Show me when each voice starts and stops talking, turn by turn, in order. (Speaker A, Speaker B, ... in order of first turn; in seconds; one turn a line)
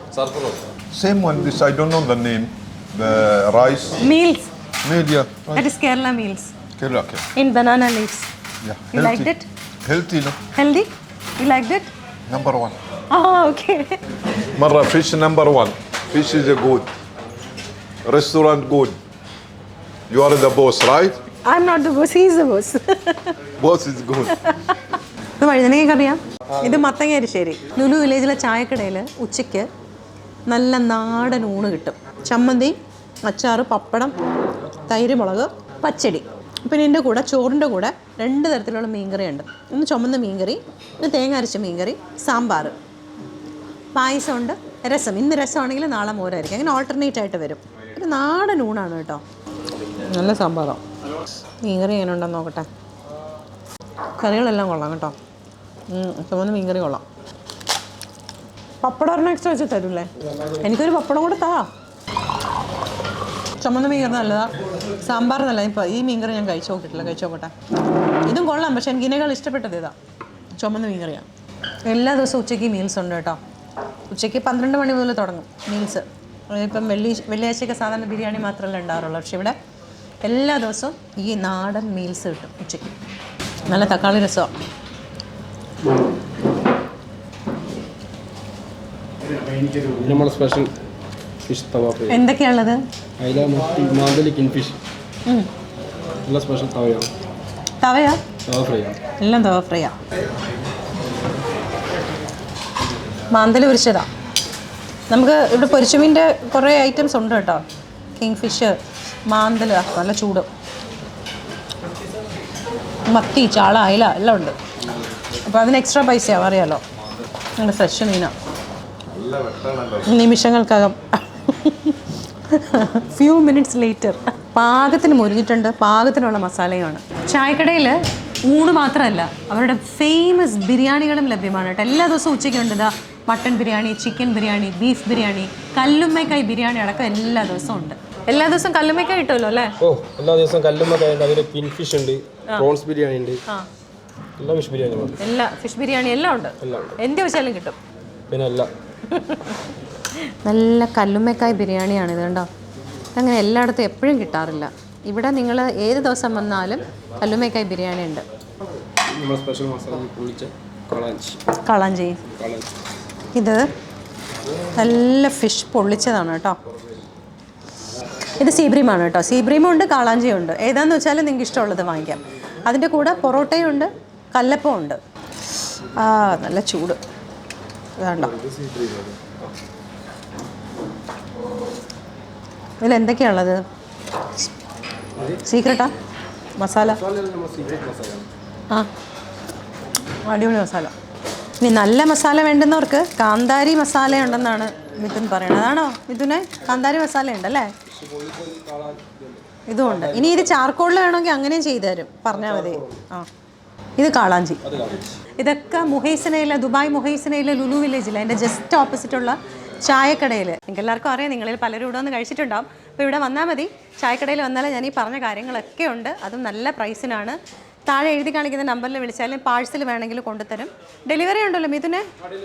Speaker A: 0.2-4.1
Speaker B: 4.0-4.5
Speaker A: 4.8-5.7
Speaker B: 5.5-6.5
Speaker A: 6.8-7.2
Speaker B: 7.3-8.3
Speaker A: 8.6-9.3
Speaker B: 8.9-9.5
Speaker A: 9.8-10.4
Speaker B: 10.5-11.9
Speaker A: 12.3-12.8
Speaker B: 13.1-14.0
Speaker A: 14.5-16.9
Speaker A: 18.0-19.0
Speaker A: 20.1-21.1
Speaker B: 21.4-23.3
Speaker A: 23.6-24.4
Speaker B: 24.3-24.8
Speaker B: 25.4-29.7
Speaker B: 30.5-34.1
Speaker B: 34.9-42.8
Speaker B: 43.9-49.2
Speaker B: 50.1-50.8
Speaker B: 51.6-52.7
Speaker B: 54.2-55.1
Speaker B: 55.9-57.0
Speaker B: 58.8-61.7
Speaker C: 60.2-60.6
Speaker B: 63.6-67.5
Speaker B: 68.2-69.9
Speaker B: 70.5-71.3
Speaker B: 71.9-73.4
Speaker B: 74.1-79.5
Speaker B: 80.2-82.9
Speaker B: 83.7-84.5
Speaker C: 89.8-90.7
Speaker C: 91.5-92.2
Speaker B: 92.1-92.8
Speaker C: 93.2-94.8
Speaker C: 96.2-97.1
Speaker B: 97.8-98.2
Speaker C: 98.5-99.0
Speaker B: 99.2-100.0
Speaker B: 103.3-104.0
Speaker B: 105.1-107.6
Speaker B: 108.2-108.8
Speaker B: 109.3-110.5
Speaker B: 113.1-114.5
Speaker B: 115.4-116.8
Speaker B: 117.6-118.3
Speaker A: 119.1-120.1
Speaker B: 120.0-139.7
Speaker C: 139.8-143.4
Speaker C: 144.4-145.2
Speaker B: 145.2-147.8
Speaker C: 146.6-147.0
Speaker C: 148.3-148.7
Speaker B: 149.1-149.6
Speaker B: 150.2-152.5
Speaker B: 153.1-158.2
Speaker C: 159.1-161.4
Speaker B: 161.6-162.2
Speaker C: 162.2-162.7
Speaker B: 163.3-163.7
Speaker B: 164.7-166.6
Speaker B: 168.3-175.0
Speaker B: 175.8-177.0
Speaker B: 178.0-178.3
Speaker C: 178.3-179.1
Speaker B: 182.8-183.6
Speaker B: 185.4-185.9
Speaker B: 186.6-187.0
Speaker C: 186.8-188.3
Speaker B: 190.2-190.9
Speaker B: 191.6-197.7
Speaker C: 197.9-200.6
Speaker B: 199.7-203.3
Speaker C: 202.3-203.0
Speaker B: 204.0-204.6
Speaker C: 204.6-205.1
Speaker B: 205.4-222.0